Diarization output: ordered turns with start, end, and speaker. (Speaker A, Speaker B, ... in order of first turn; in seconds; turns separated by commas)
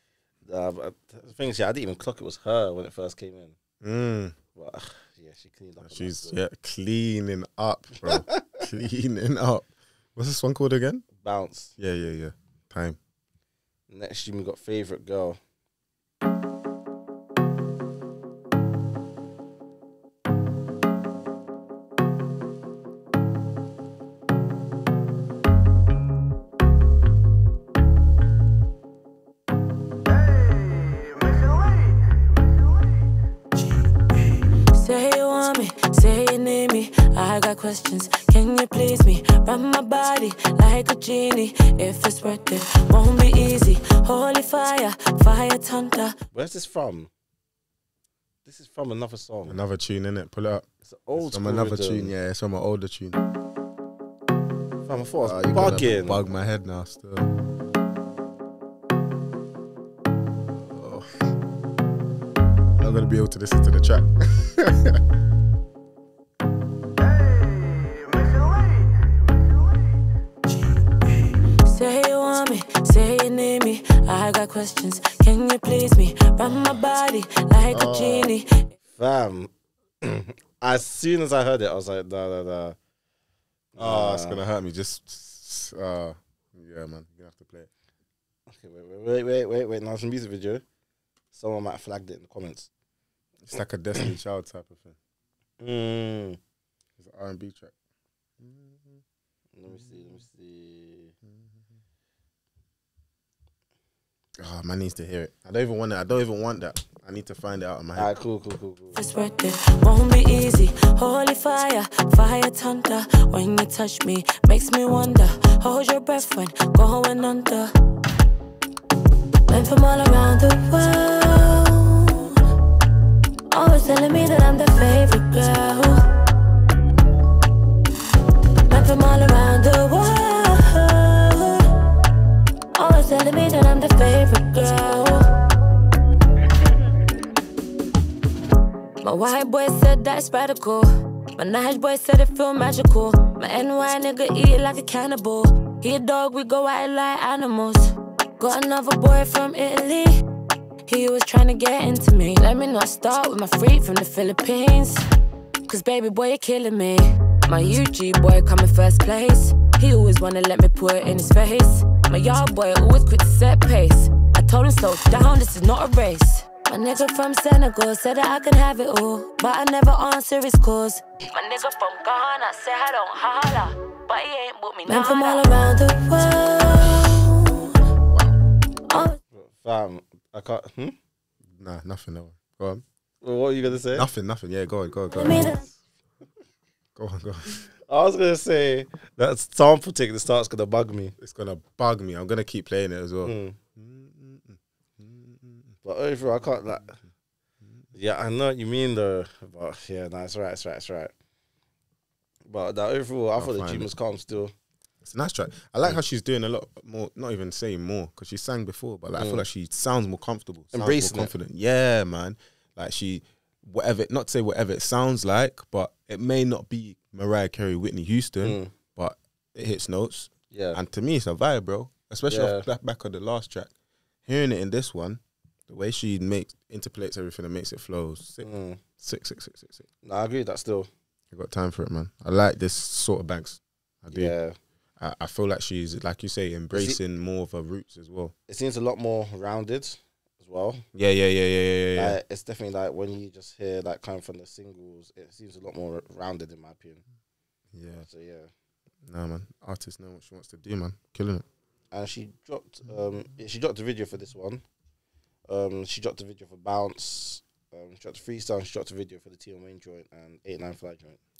Speaker A: 0.5-3.5, Speaker B: 3.8-4.3, Speaker A: 4.5-6.4, Speaker B: 5.8-11.1, Speaker A: 8.0-8.4, Speaker A: 11.2-11.7, Speaker B: 11.8-13.0, Speaker A: 13.9-15.4, Speaker C: 34.7-46.1, Speaker A: 46.3-47.1, Speaker A: 48.4-49.6, Speaker B: 49.5-53.2, Speaker A: 50.8-52.1, Speaker A: 54.9-56.2, Speaker B: 55.2-57.3, Speaker B: 60.5-61.1, Speaker B: 62.7-65.0, Speaker C: 71.6-78.7, Speaker B: 77.7-78.3, Speaker A: 78.9-79.5, Speaker A: 80.0-82.8, Speaker A: 83.7-84.4, Speaker B: 83.8-87.7, Speaker A: 88.5-90.6, Speaker A: 91.3-92.7, Speaker B: 93.5-95.0, Speaker A: 95.6-96.4, Speaker B: 97.0-97.7, Speaker B: 98.4-99.0, Speaker A: 99.5-101.1, Speaker B: 99.7-100.0, Speaker B: 101.3-101.7, Speaker B: 104.4-108.1, Speaker A: 107.9-109.0, Speaker C: 108.9-117.7, Speaker C: 119.5-122.3, Speaker C: 123.5-126.0, Speaker C: 128.7-131.7, Speaker C: 132.7-135.3, Speaker C: 139.0-150.2, Speaker C: 150.9-155.1, Speaker C: 155.7-177.6, Speaker B: 178.1-178.3, Speaker C: 178.9-179.2, Speaker A: 179.3-180.9, Speaker B: 181.5-182.8, Speaker A: 183.2-184.1, Speaker B: 183.9-185.7, Speaker C: 185.2-185.6, Speaker B: 186.9-187.7, Speaker A: 187.9-191.2, Speaker B: 191.2-195.8, Speaker A: 193.2-193.6, Speaker A: 195.8-196.9, Speaker A: 197.9-201.1, Speaker A: 202.5-204.5, Speaker B: 203.4-203.9, Speaker B: 205.0-223.7, Speaker A: 209.2-209.4, Speaker A: 210.7-211.3, Speaker A: 218.4-218.7, Speaker A: 220.5-220.8, Speaker A: 222.3-222.7, Speaker B: 224.2-228.5, Speaker A: 228.4-228.8, Speaker B: 229.0-229.9, Speaker A: 230.0-230.9, Speaker B: 231.3-234.3, Speaker A: 234.1-234.6, Speaker B: 235.0-238.3, Speaker A: 236.7-237.0, Speaker A: 238.5-240.8, Speaker B: 240.9-242.2, Speaker A: 241.9-247.0, Speaker B: 247.7-248.1, Speaker A: 248.0-248.5, Speaker B: 249.1-251.4, Speaker A: 251.9-254.6, Speaker A: 255.5-261.2